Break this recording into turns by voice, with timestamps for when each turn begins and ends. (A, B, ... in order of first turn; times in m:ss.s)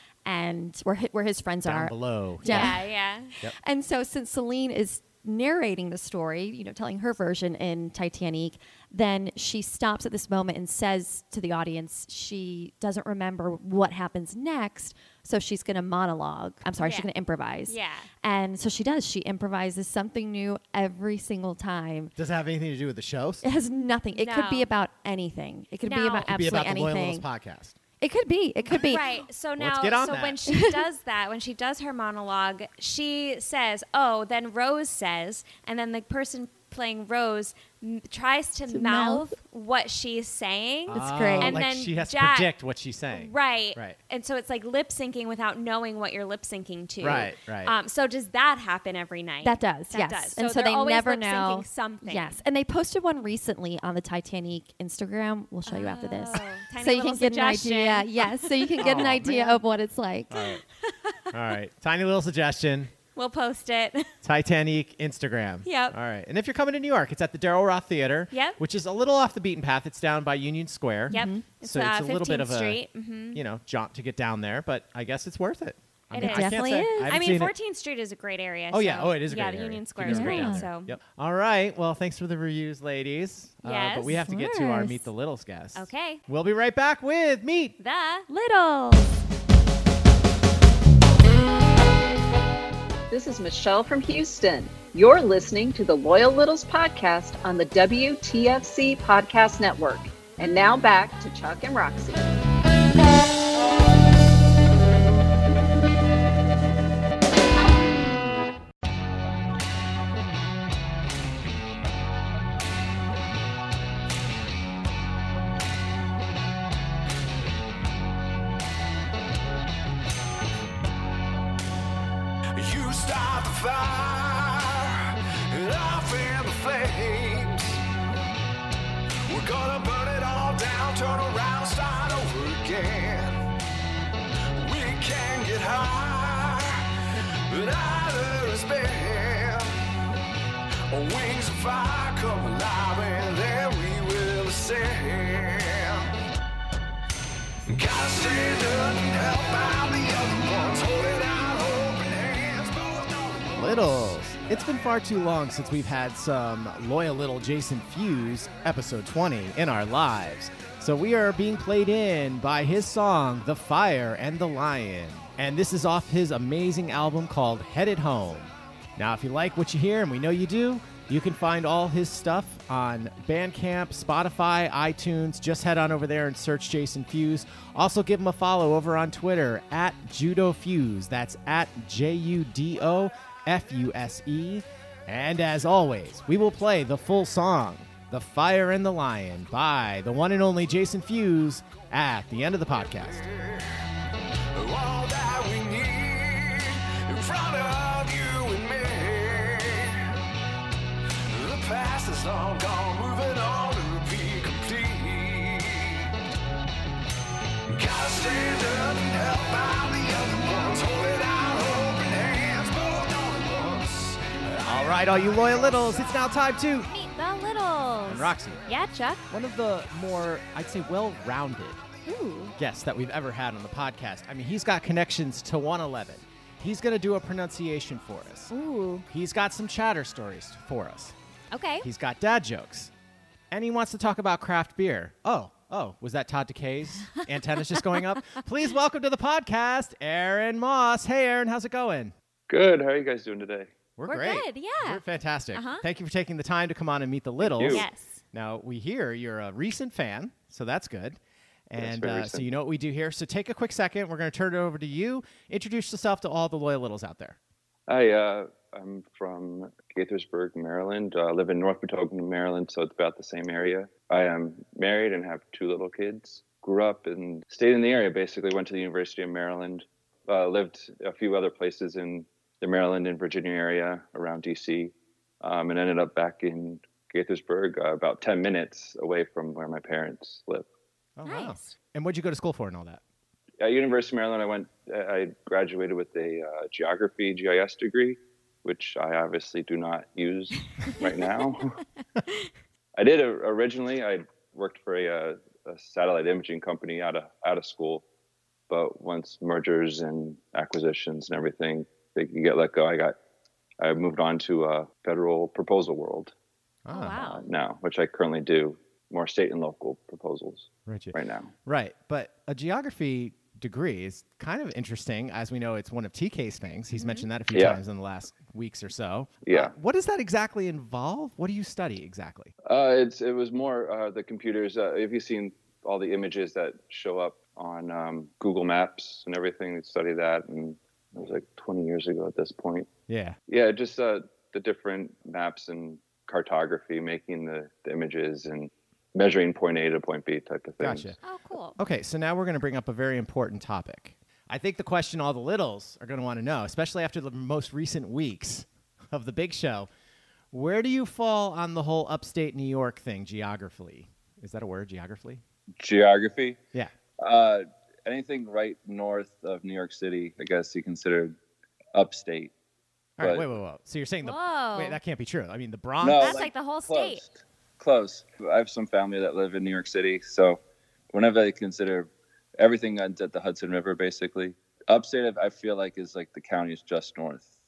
0:00.2-0:02.9 A
0:01.6-0:02.8 B
0:02.4-0:03.3 C
0:03.6-0:22.1 A
0:16.8-0:17.1 C
0:17.7-0:18.1 C
0:22.2-0:23.4 B
0:23.4-0:27.2 A
0:24.1-0:24.7 C
0:25.8-0:26.3 C
0:26.3-0:27.8 B
0:28.0-0:29.1 A
0:28.7-0:42.5 C
0:29.6-0:30.4 B
0:30.5-0:30.8 A
0:38.7-0:39.2 A
0:40.9-0:41.6 A
0:40.9-0:44.0 B
0:43.1-0:52.4 C
0:47.0-0:47.8 B
0:49.4-1:00.4 A
0:55.7-0:59.3 C
0:58.8-0:59.6 B
1:00.3-1:00.6 B
1:00.8-1:01.3 C
1:01.3-1:02.9 B
1:03.1-1:04.1 C
1:04.2-1:12.8 B
1:05.6-1:06.0 C
1:08.3-1:08.6 C
1:11.1-1:13.4 C
1:11.1-1:11.4 A
1:13.3-1:17.5 B
1:16.1-1:21.0 C
1:16.2-1:17.2 A
1:18.7-1:27.8 B
1:20.0-1:20.7 A
1:23.6-1:24.2 C
1:24.2-1:25.0 A
1:25.8-1:26.2 C
1:27.8-1:28.3 C
1:28.3-1:29.1 A
1:33.1-1:42.3 D
2:02.5-2:07.8 E
2:09.2-2:13.4 E
2:14.5-2:16.9 E
2:17.5-2:19.8 E
2:20.9-2:26.1 E
2:27.7-2:34.2 E
2:33.5-3:13.3 B
3:12.9-3:13.8 E
3:14.5-3:20.1 E
3:21.3-3:26.1 E
3:27.7-3:34.6 E
3:34.6-3:36.9 B
3:36.9-3:39.2 C
3:38.0-3:38.6 B
3:39.3-3:41.8 B
3:42.0-3:42.5 C
3:42.6-3:48.5 B
3:48.5-3:49.0 C
3:49.1-3:51.1 B
3:51.5-3:51.9 C
3:51.8-3:52.9 B
3:53.5-4:02.1 B
3:57.1-3:58.4 C
4:02.5-4:03.7 F
4:04.0-4:17.4 B
4:04.1-4:05.0 C
4:05.5-4:05.8 C
4:07.4-4:07.8 F
4:07.6-4:08.2 C
4:11.8-4:12.5 F
4:17.9-4:40.7 F
4:41.2-4:43.0 B
4:41.2-4:41.7 C
4:43.6-4:51.8 F
4:53.0-4:58.0 F
4:58.7-5:03.1 F
5:03.8-5:06.3 F
5:06.8-5:07.3 B
5:06.9-5:07.4 C
5:07.3-5:11.5 F
5:10.9-5:22.5 B
5:16.9-5:17.3 C
5:17.5-5:17.8 F
5:19.4-5:19.7 F
5:22.6-5:32.9 F
5:33.1-5:33.4 B
5:33.5-5:41.1 F
5:40.8-5:41.2 B
5:41.2-5:41.8 C
5:41.8-5:49.9 B
5:50.5-5:55.4 B
5:55.8-5:56.6 F
5:57.2-6:01.4 F
6:01.9-6:02.5 F
6:03.2-6:06.5 B
6:03.2-6:03.4 F
6:04.2-6:05.0 C
6:06.0-6:10.6 F
6:06.2-6:07.2 C
6:11.1-6:17.5 F